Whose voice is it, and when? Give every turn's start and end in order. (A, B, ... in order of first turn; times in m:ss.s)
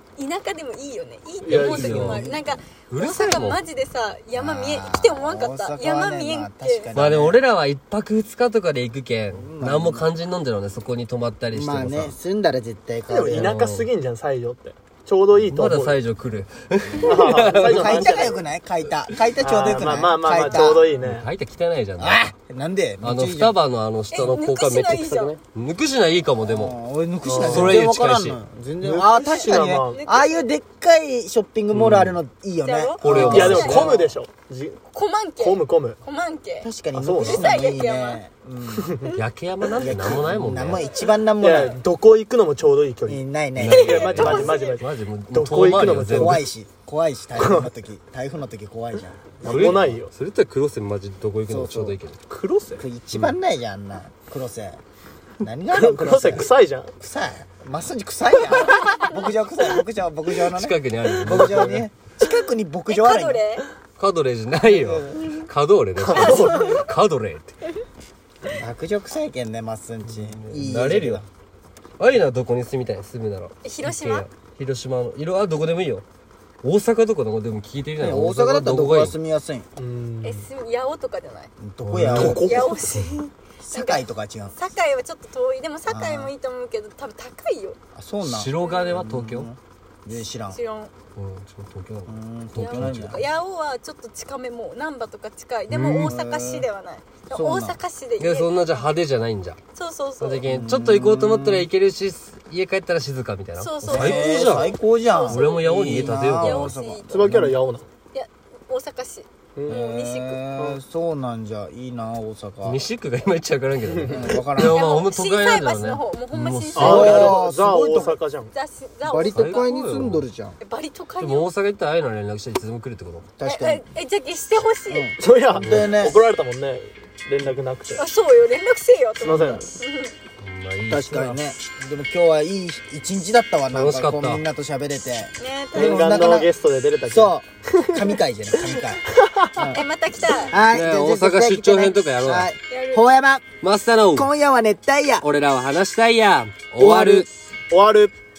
0:00.2-0:06.9 A
0:01.4-0:02.2 B
0:01.4-0:02.3 C
0:01.9-0:02.6 D
0:02.9-0:03.6 C
0:04.3-0:07.4 D
0:06.9-0:12.2 C
0:09.3-0:10.1 D
0:11.5-0:13.6 D
0:13.1-0:16.0 B
0:13.2-0:13.9 C
0:15.4-0:18.2 C
0:17.0-0:18.4 B
0:17.1-0:20.9 D
0:19.4-0:21.3 B
0:20.4-0:20.8 A
0:21.0-0:22.3 C
0:22.0-0:23.6 D
0:23.0-0:28.4 C
0:24.1-0:25.4 A
0:26.4-0:34.1 D
0:27.3-0:27.7 B
0:28.8-0:30.0 B
0:29.2-0:30.5 A
0:31.7-0:32.1 B
0:32.6-0:34.1 A
0:33.0-0:34.0 C
0:33.0-0:34.8 B
0:34.9-0:38.2 A
0:35.4-0:36.0 B
0:36.6-0:39.0 D
0:37.0-0:37.5 B
0:38.8-0:39.1 B
0:39.1-0:40.9 C
0:39.8-0:41.8 D
0:40.8-0:41.1 A
0:41.4-0:46.5 B
0:43.1-0:44.4 D
0:43.6-0:46.4 C
0:43.7-0:44.8 A
0:45.8-0:49.8 D
0:47.4-0:47.6 B
0:49.4-0:50.1 B
0:49.4-0:52.2 C
0:51.5-0:52.0 D
0:52.3-0:52.8 B
0:52.8-0:54.8 D
0:53.1-0:53.4 C
0:55.4-1:03.4 D
0:55.7-0:56.9 B
1:00.5-1:01.9 C
1:02.9-1:03.6 A
1:04.0-1:07.5 C
1:04.8-1:05.2 D
1:06.0-1:06.8 B
1:06.1-1:06.9 A
1:08.5-1:11.3 D
1:10.1-1:11.2 C
1:12.0-1:16.0 C
1:13.6-1:14.3 A
1:16.6-1:19.2 C
1:18.0-1:19.7 D
1:19.8-1:20.5 B
1:20.2-1:21.5 A
1:21.6-1:22.8 D
1:21.8-1:23.1 C
1:22.1-1:22.9 B
1:22.4-1:27.8 A
1:23.6-1:24.6 D
1:25.9-1:26.3 D
1:28.0-1:30.6 D
1:28.2-1:29.5 C
1:30.1-1:30.9 A
1:31.2-1:33.3 C
1:32.1-1:33.2 D
1:32.6-1:38.8 A
1:35.7-1:36.7 D
1:37.3-1:37.8 D
1:38.2-1:39.6 C
1:39.8-1:40.4 A
1:40.2-1:44.8 C
1:40.5-1:41.7 D
1:43.6-1:45.6 A
1:43.9-1:47.6 D
1:45.3-1:46.8 C
1:46.3-1:47.1 A
1:47.1-1:47.9 B
1:48.1-1:50.4 A
1:49.7-1:52.8 D
1:52.6-1:57.1 C
1:53.9-1:54.2 B
1:54.1-1:54.8 D
1:54.6-1:57.4 A
1:56.8-1:58.5 B
1:56.8-1:58.2 D
1:58.5-2:00.1 A
1:59.0-2:00.6 D
1:59.2-2:00.3 C
2:00.6-2:01.5 A
2:01.2-2:03.3 C
2:03.4-2:03.9 D
2:03.4-2:05.2 A
2:04.9-2:06.2 D
2:05.2-2:08.0 B
2:05.6-2:05.9 C
2:08.0-2:10.2 A
2:09.2-2:09.7 B
2:10.4-2:11.4 C
2:10.9-2:16.5 D
2:13.7-2:14.4 C
2:15.4-2:16.2 A
2:15.7-2:19.6 B
2:17.0-2:19.0 D
2:19.6-2:19.8 D
2:19.6-2:20.6 A
2:20.5-2:23.4 D
2:20.7-2:22.5 C
2:22.7-2:23.0 A
2:23.6-2:24.3 C
2:24.2-2:25.3 D
2:25.2-2:27.3 C
2:26.8-2:27.3 D
2:27.7-2:28.1 B